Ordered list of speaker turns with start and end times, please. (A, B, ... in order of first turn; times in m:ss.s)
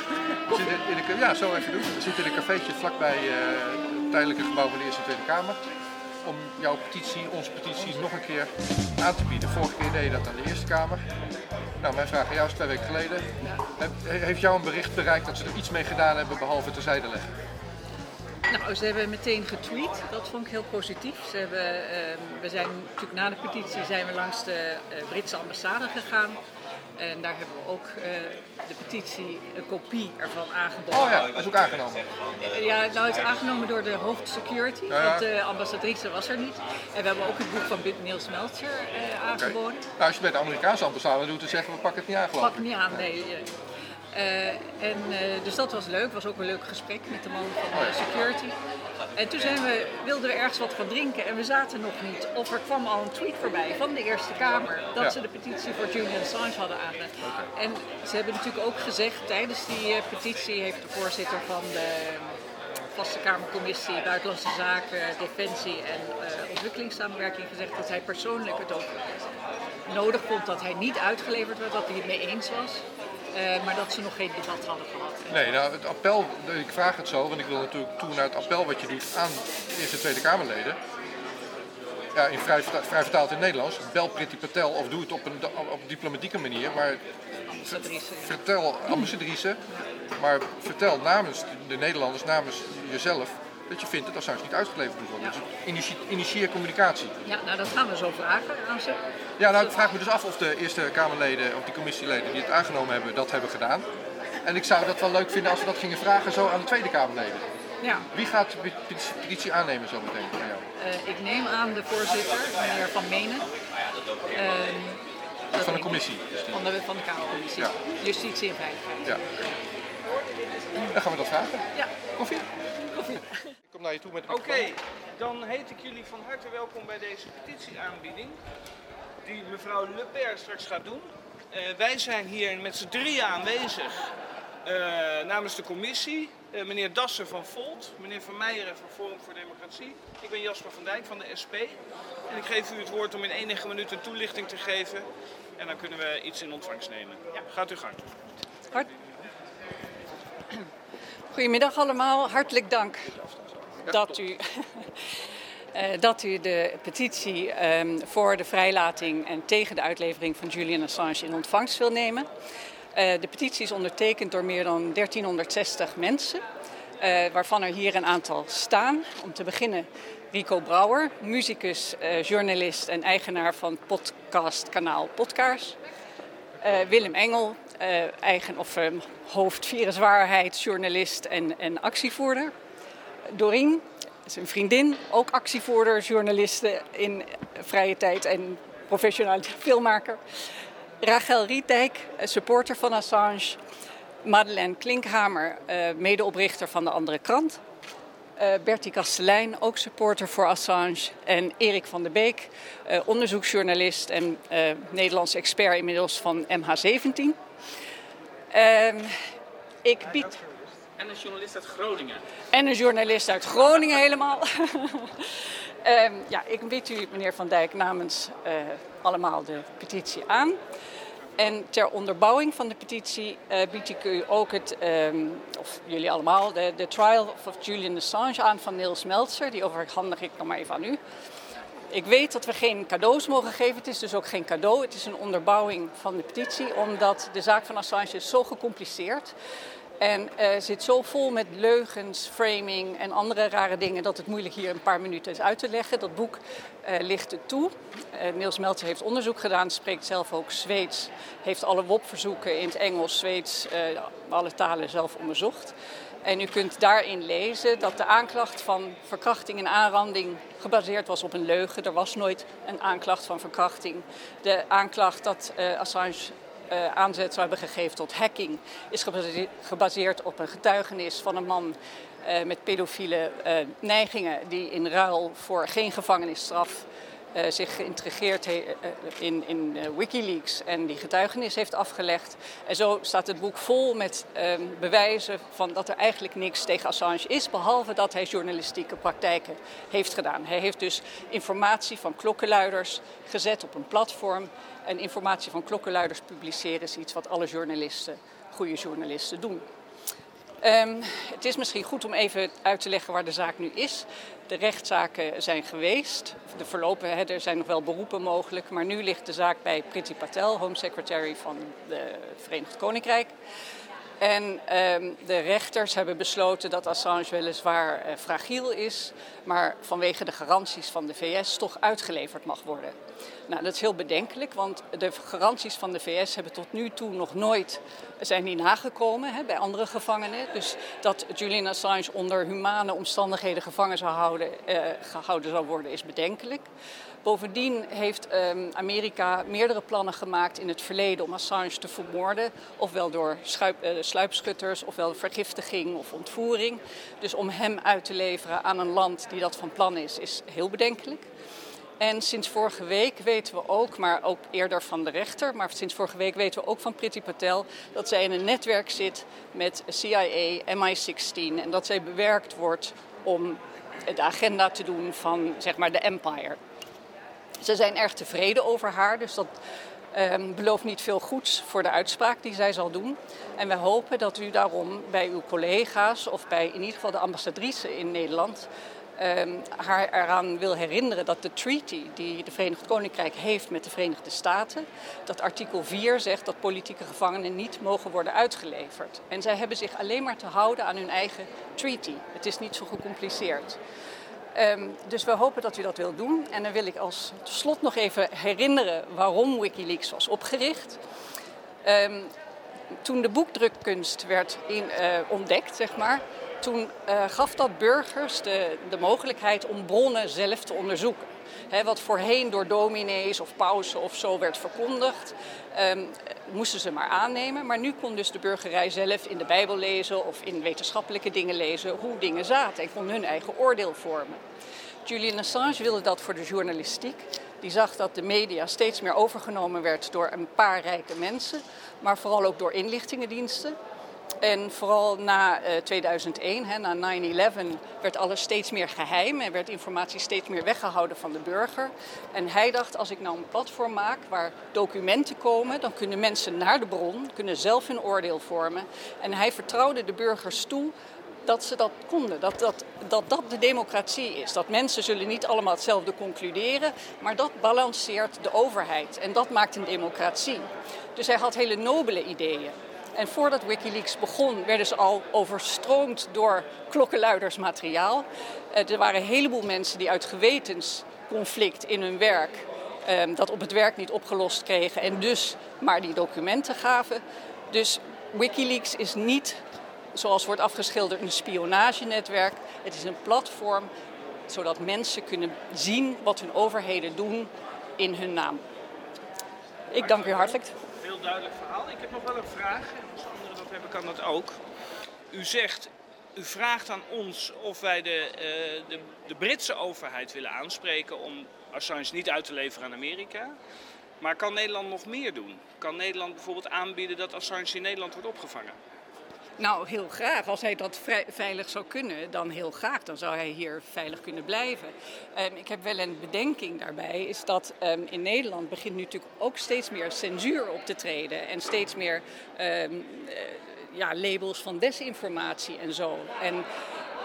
0:00.5-0:05.6 A
0:06.2-0:11.0 A
0:11.8-0:17.3 A
0:18.5-0:26.4 B
0:27.0-0:31.2 B
0:30.9-0:32.0 A
0:32.4-0:39.8 B
0:34.9-0:35.2 A
0:39.4-0:43.1 A
0:42.4-0:43.5 B
0:44.1-0:48.6 B
0:47.7-0:48.0 A
0:49.1-1:02.4 B
0:57.2-0:57.5 A
1:02.9-1:08.9 B
1:09.9-1:15.3 B
1:15.3-1:20.8 A
1:22.1-1:27.0 A
1:27.5-1:29.1 B
1:27.6-1:29.6 A
1:30.2-1:37.1 A
1:37.2-1:39.0 B
1:39.4-1:43.9 A
1:44.4-1:47.5 A
1:47.8-1:48.1 B
1:48.1-1:50.6 A
1:50.8-1:53.5 B
1:54.3-1:55.0 B
1:55.5-1:56.6 A
1:55.5-1:59.1 B
2:00.9-2:01.6 A
2:02.2-2:02.5 A
2:02.9-2:03.4 B
2:03.7-2:04.8 A
2:04.3-2:08.4 C
2:09.2-2:14.1 C
2:14.6-2:21.8 C
2:22.3-2:25.0 C
2:25.6-2:28.1 C
2:31.3-2:33.2 B
2:33.9-2:34.9 B
2:35.7-2:42.3 B
2:42.9-2:46.4 B
2:47.0-2:55.8 B
2:56.6-3:02.5 B
3:03.3-3:10.2 B
3:11.0-3:13.6 B
3:14.2-3:17.6 B
3:18.4-3:27.4 B
3:28.5-3:29.1 B
3:29.8-3:30.4 B
3:32.5-3:35.3 B
3:35.8-3:40.6 B
3:41.4-3:51.0 B
3:51.9-3:59.3 B
4:00.0-4:59.6 B
5:00.6-5:13.3 B
5:14.2-5:23.0 B
5:23.5-5:36.7 B
5:37.2-5:51.3 B
5:52.0-6:06.6 B
6:07.6-6:09.5 B
6:10.1-6:33.8 B
6:34.5-6:41.0 B
6:41.8-6:42.3 B
6:43.0-7:04.4 B
7:05.0-7:13.8 B
7:14.4-7:59.6 B
8:00.1-8:03.9 B
8:04.5-8:08.6 B
8:09.9-8:10.7 B
8:10.0-8:14.6 C
8:15.3-8:23.6 C
8:24.2-8:28.8 C
8:29.6-8:46.6 B